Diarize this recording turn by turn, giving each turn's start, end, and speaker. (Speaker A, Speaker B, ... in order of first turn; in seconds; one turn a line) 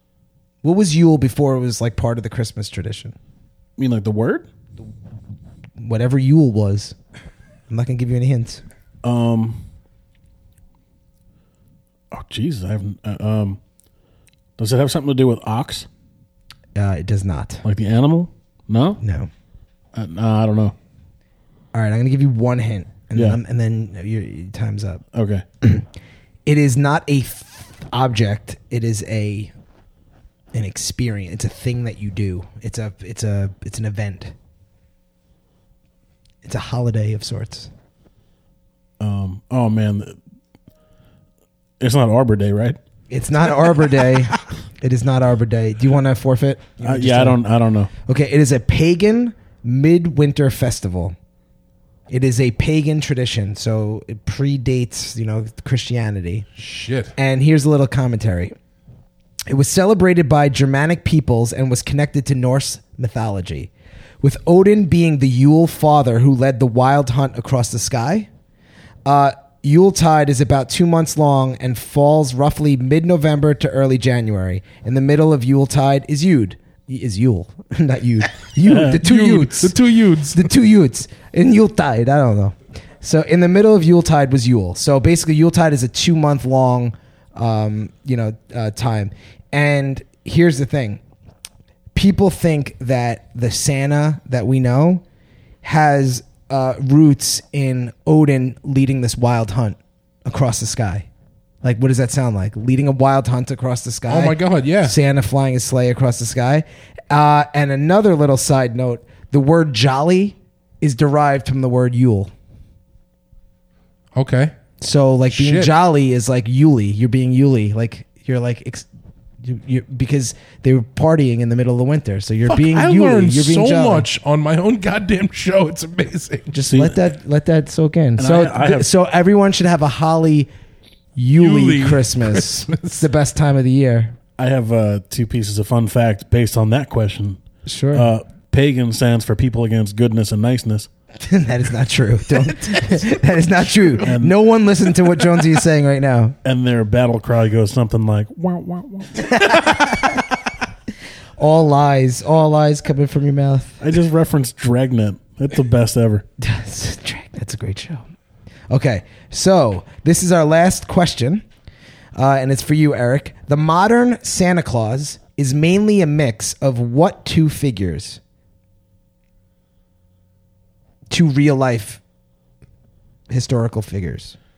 Speaker A: 0.6-3.2
Speaker B: 3.8-4.5
Speaker A: 5.8-7.0
Speaker A: 7.7-8.6
Speaker B: 9.0-9.6
Speaker B: 12.1-13.6
Speaker B: 14.6-15.9
Speaker A: 16.8-17.6
Speaker B: 17.6-19.0
Speaker A: 19.0-19.3
Speaker B: 19.9-20.8
Speaker A: 21.7-25.0
Speaker B: 25.1-25.4
Speaker A: 26.5-29.5
Speaker A: 30.5-34.3
Speaker A: 36.4-37.7
Speaker B: 39.0-40.2
Speaker B: 41.8-42.8
Speaker A: 43.1-47.4
Speaker B: 46.8-47.9
Speaker A: 48.0-51.1
Speaker A: 52.1-56.5
Speaker C: 56.6-57.1
Speaker A: 57.2-58.5
Speaker A: 59.5-63.7
Speaker A: 64.2-68.3
Speaker A: 69.0-79.8
Speaker B: 78.7-79.0
Speaker C: 78.8-80.5
Speaker A: 80.3-91.0
Speaker A: 91.9-95.0
Speaker A: 95.6-101.1
Speaker A: 101.6-112.3
Speaker C: 104.1-105.0
Speaker C: 114.1-114.5
Speaker A: 114.8-118.9
Speaker C: 115.3-115.7
Speaker A: 119.4-124.1
Speaker C: 122.5-126.5
Speaker A: 126.5-130.5
Speaker B: 126.7-127.0
Speaker B: 128.2-128.9
Speaker A: 131.2-134.2
Speaker C: 131.3-133.1
Speaker B: 134.4-137.4
Speaker A: 137.7-138.1
Speaker B: 137.9-140.9
Speaker A: 141.2-146.4
Speaker C: 142.4-144.1
Speaker B: 144.0-144.3
Speaker B: 146.4-149.4
Speaker A: 149.3-149.9
Speaker A: 151.4-153.8
Speaker B: 153.8-156.2
Speaker A: 156.4-158.1
Speaker A: 158.7-161.4
Speaker A: 162.2-168.2
Speaker A: 171.1-172.0
Speaker A: 173.3-174.3